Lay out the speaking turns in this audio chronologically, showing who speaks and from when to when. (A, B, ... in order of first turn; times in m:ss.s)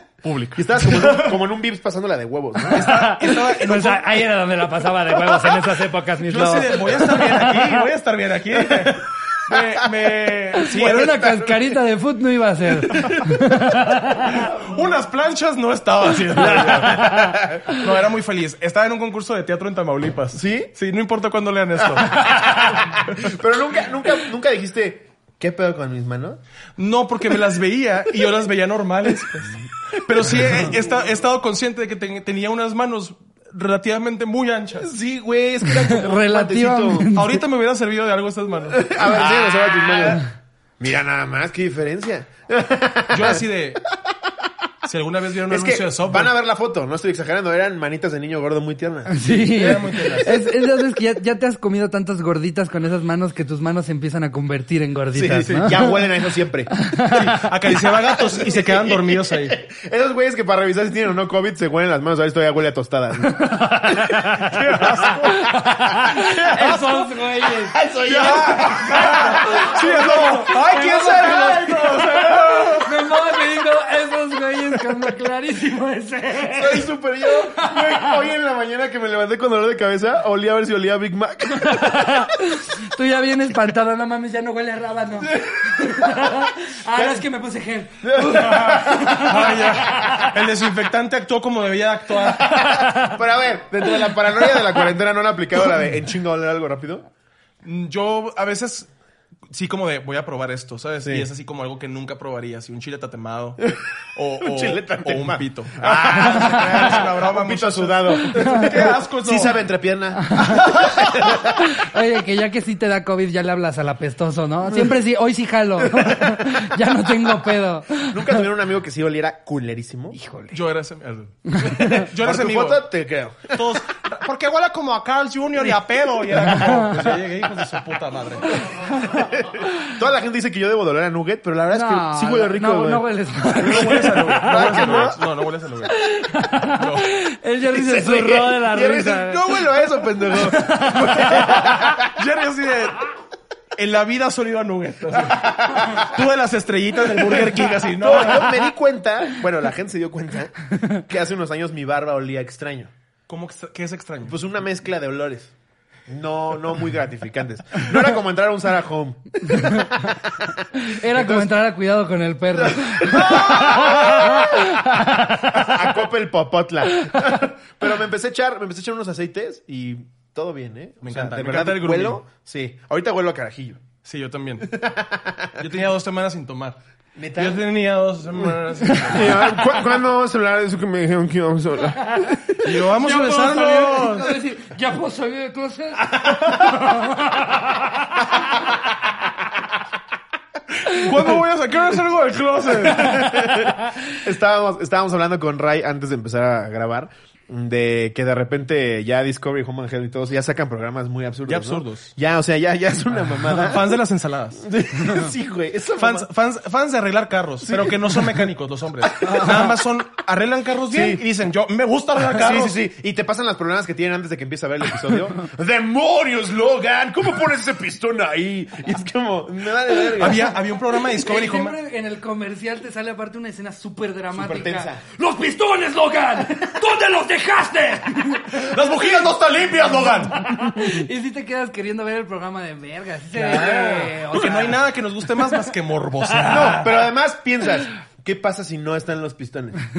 0:00.2-0:01.2 A
0:00.6-0:03.0 B
0:02.7-0:07.8 C
0:02.7-0:04.3 A
0:06.3-0:11.6 A
0:08.6-0:09.0 B
0:09.5-0:09.9 B
0:10.5-0:14.5 C
0:12.9-0:13.3 B
0:14.2-0:23.3 A
0:16.4-0:17.6 B
0:16.5-0:17.8 C
0:20.3-0:20.7 B
0:22.1-0:26.4 B
0:22.2-0:22.6 C
0:26.8-0:34.9 A
0:30.1-0:30.6 B
0:34.8-0:37.1 B
0:35.7-0:37.4 C
0:37.1-0:40.0 A
0:38.8-0:40.2 B
0:40.8-0:44.3 B
0:43.1-0:43.8 A
0:44.8-0:46.3 A
0:45.5-0:49.2 B
0:49.1-0:55.9 C
0:49.5-0:50.4 A
0:50.0-0:50.4 B
0:55.1-1:05.2 B
0:55.4-0:56.0 A
0:56.8-0:57.2 C
0:57.1-0:59.6 A
1:03.2-1:07.8 C
1:04.4-1:05.5 A
1:06.1-1:07.1 A
1:07.6-1:12.3 B
1:08.0-1:13.0 A
1:09.0-1:18.2 C
1:16.4-1:22.3 B
1:21.6-1:30.3 C
1:25.7-1:26.3 B
1:26.9-1:27.2 B
1:28.0-1:30.1 B
1:29.0-1:32.9 A
1:32.5-1:33.2 C
1:32.7-1:37.1 B
1:37.6-1:38.9 A
1:39.5-1:49.6 A
1:44.4-1:51.8 B
1:46.1-1:47.0 C
1:48.2-1:48.7 C
1:50.2-1:58.4 C
1:50.6-1:51.2 A
1:58.0-2:00.2 B
2:00.1-2:00.6 C
2:00.5-2:02.9 A
2:01.5-2:02.1 C
2:01.6-2:03.8 B
2:03.5-2:08.9 A
2:08.8-2:09.3 C
2:09.1-2:15.2 B
2:11.7-2:15.1 C
2:13.6-2:16.0 A
2:15.9-2:19.6 C
2:16.7-2:17.1 A
2:17.7-2:22.1 B
2:20.3-2:21.4 C
2:20.7-2:23.1 A
2:23.8-2:28.6 A
2:25.2-2:26.1 B
2:27.2-2:32.9 B
2:33.3-2:34.4 A
2:34.2-2:35.5 B
2:36.1-2:41.5 B
2:39.5-2:40.2 C
2:40.7-2:45.9 C
2:42.6-2:44.7 B
2:45.5-2:53.8 B
2:51.0-2:52.2 A
2:54.0-2:54.8 A
2:54.7-2:55.6 B
2:55.6-2:56.8 A
2:57.2-2:57.6 B
2:57.4-2:59.5 A
2:59.1-3:02.7 B
2:59.1-2:59.5 C
3:02.0-3:08.3 C
3:02.6-3:04.3 A
3:06.2-3:06.5 B
3:10.8-3:13.4 A
3:12.8-3:24.0 B
3:13.1-3:13.4 C
3:21.5-3:22.1 A
3:23.3-3:24.7 A
3:24.6-3:26.3 B
3:26.0-3:32.8 A
3:27.6-3:28.5 B
3:29.0-3:29.8 B
3:30.9-3:31.2 B
3:32.3-3:40.5 B
3:40.1-3:41.8 A
3:41.0-3:48.8 C
3:44.3-3:45.0 B
3:48.5-3:50.4 A
3:50.3-3:54.8 C
3:53.4-3:57.0 A
3:56.4-3:59.8 B